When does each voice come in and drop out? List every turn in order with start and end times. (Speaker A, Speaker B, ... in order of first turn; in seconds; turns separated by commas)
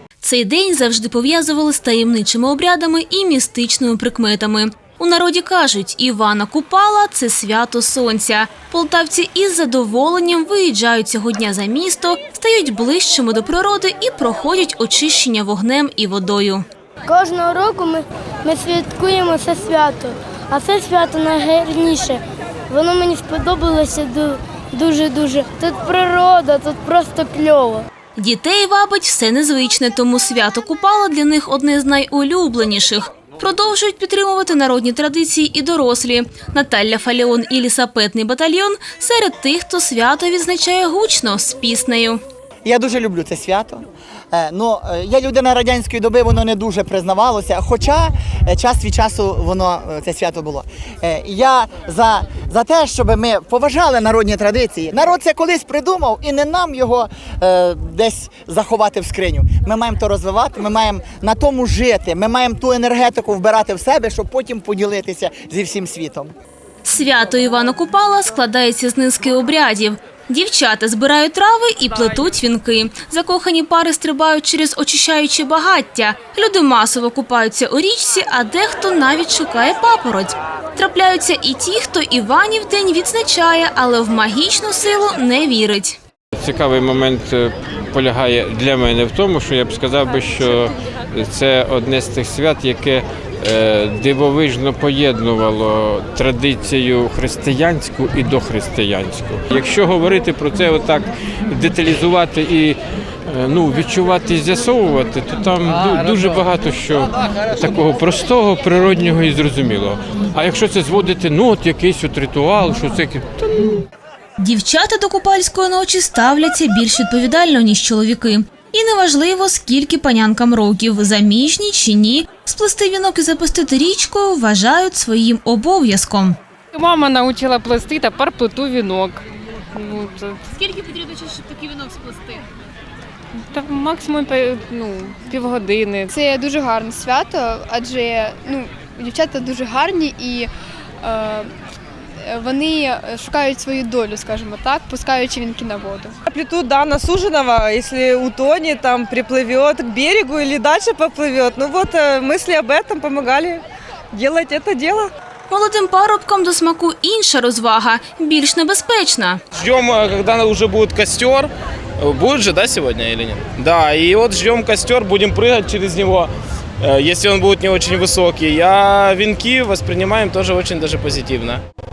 Speaker A: 0.2-16.6, Speaker B: 17.1-27.9, Speaker A: 28.2-42.2, Speaker C: 42.6-66.3, Speaker A: 66.8-86.0, Speaker D: 86.4-113.7, Speaker A: 114.4-126.4, Speaker E: 126.7-130.8, Speaker E: 132.0-132.4, Speaker E: 133.4-136.1, Speaker F: 136.1-140.5, Speaker F: 141.0-141.5, Speaker F: 142.2-146.1, Speaker G: 146.3-153.6, Speaker G: 154.1-155.1, Speaker A: 155.5-159.4, Speaker H: 159.5-166.3, Speaker H: 166.8-171.6